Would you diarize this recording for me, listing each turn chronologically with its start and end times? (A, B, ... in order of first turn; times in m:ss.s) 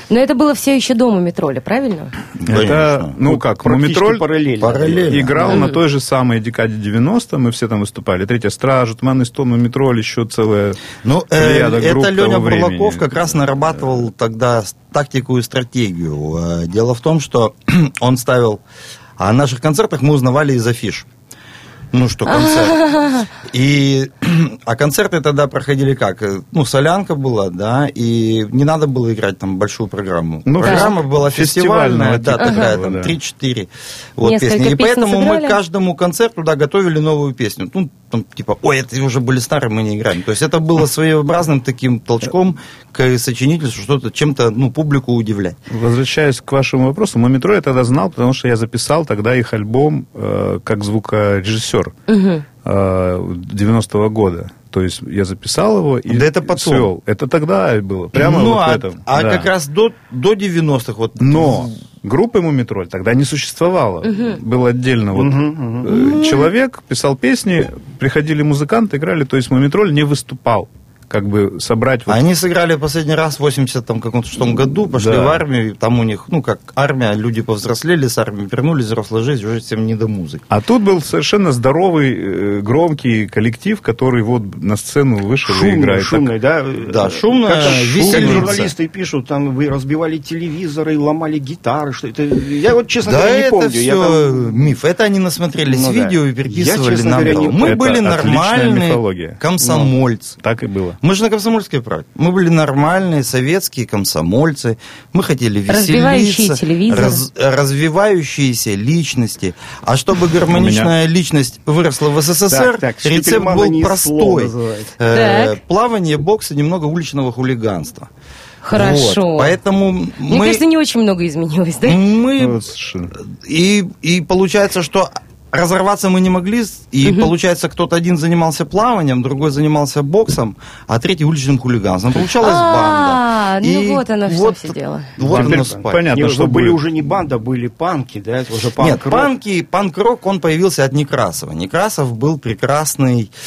0:00.1-0:02.1 A
0:02.5-0:04.3 B
0:02.5-0:03.1 C
0:03.3-0:05.6 D
0:04.6-0:05.4 C
0:05.1-0:10.8 B
0:05.4-0:05.8 A
0:11.0-0:18.6 C
0:11.4-0:13.2 B
0:19.2-0:21.1 C
0:21.9-0:22.8 C
0:22.3-0:23.3 A
0:23.5-0:33.7 C
0:30.5-0:33.1 B
0:30.6-0:30.9 A
0:32.4-0:32.8 A
0:34.2-0:45.6 C
0:34.2-0:35.6 A
0:45.7-0:51.9 B
0:52.1-0:52.4 A
0:52.6-0:59.5 B
0:56.1-0:56.9 C
0:58.2-1:01.7 C
1:01.2-1:12.2 B
1:04.1-1:04.4 A
1:05.2-1:05.9 D
1:12.1-1:20.4 C
1:14.9-1:15.4 B
1:20.5-1:26.3 B
1:25.5-1:34.6 D
1:27.0-1:28.7 C
1:27.6-1:28.5 B
1:33.1-1:40.3 C
1:35.7-1:37.8 D
1:37.6-1:39.4 B
1:39.6-1:39.9 D
1:40.4-1:41.0 B
1:41.0-1:54.4 C
1:45.7-1:47.2 A
1:50.5-1:50.9 B
1:52.5-1:55.0 D
1:55.0-1:58.1 C
1:55.1-1:55.6 A
1:58.6-1:59.6 A
1:58.8-2:00.6 C
2:00.3-2:02.0 A
2:01.9-2:02.6 C
2:02.4-2:03.1 B
2:03.5-2:15.9 C
2:12.4-2:15.1 A
2:15.2-2:16.8 B
2:15.2-2:19.3 D
2:18.8-2:23.3 C